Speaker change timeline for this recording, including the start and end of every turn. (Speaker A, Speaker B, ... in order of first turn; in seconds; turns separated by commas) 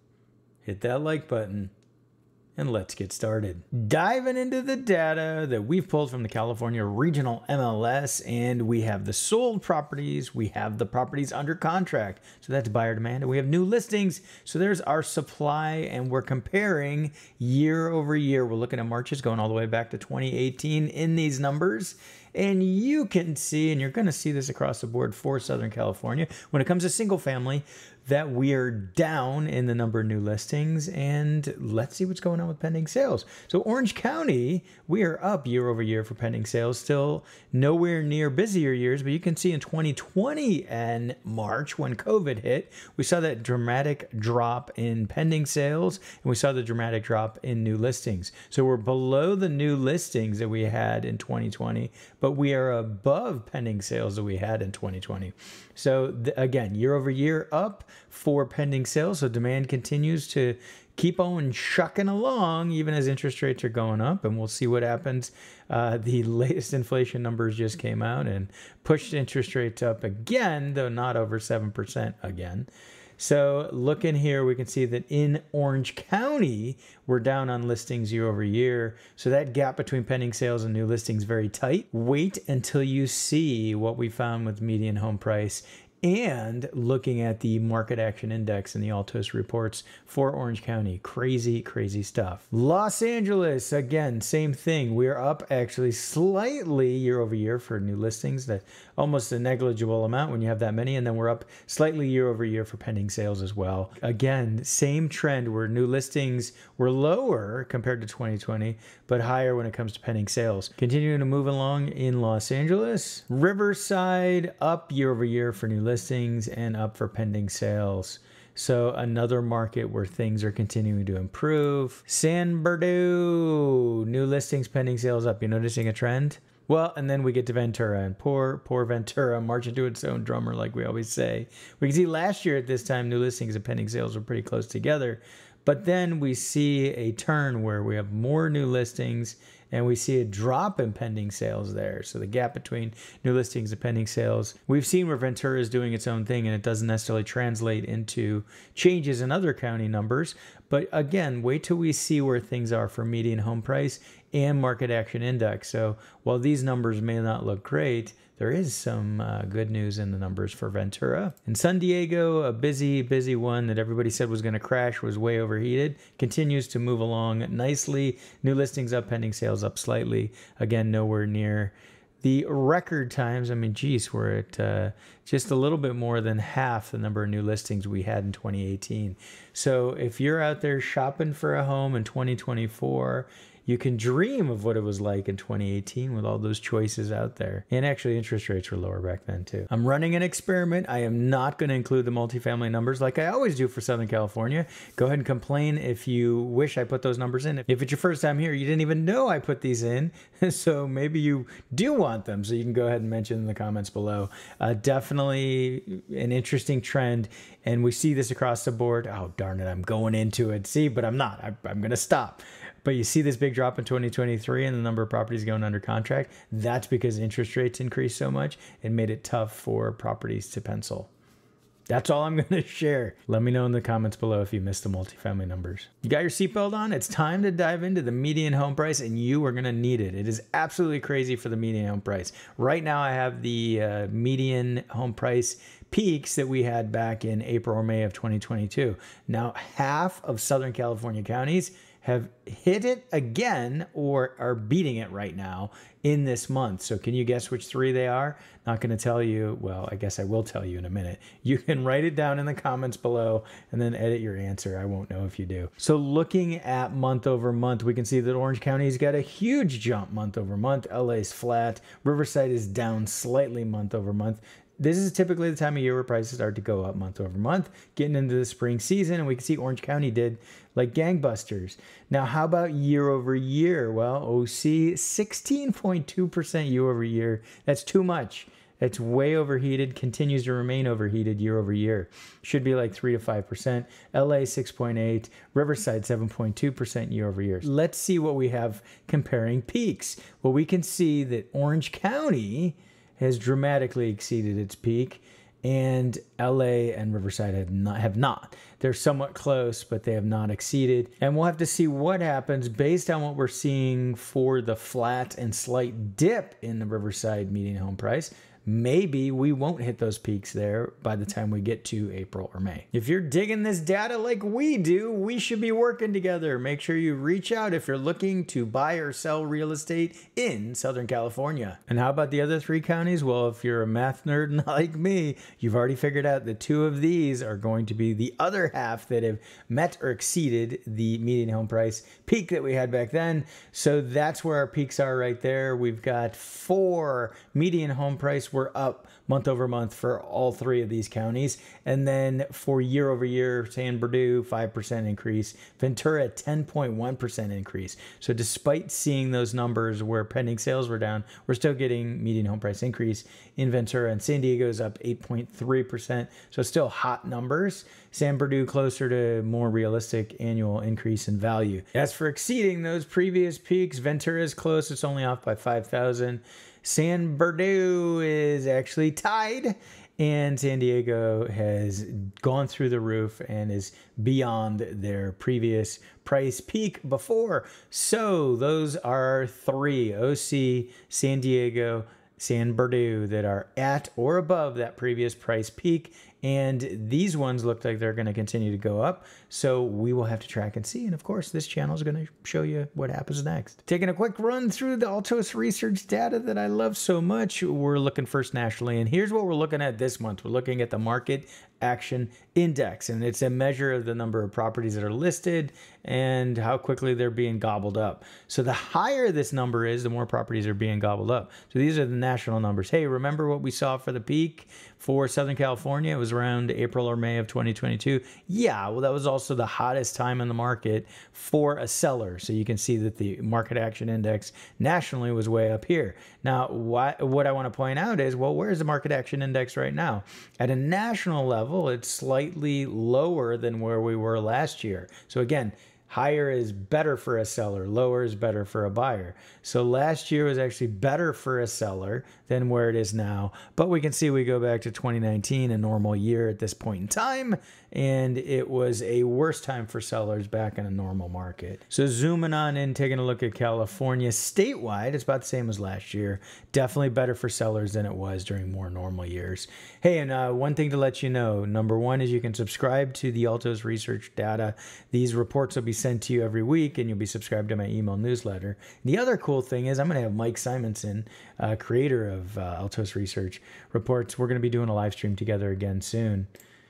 Speaker A: 0.6-1.7, Speaker A: 2.5-221.1, Speaker A: 221.9-476.5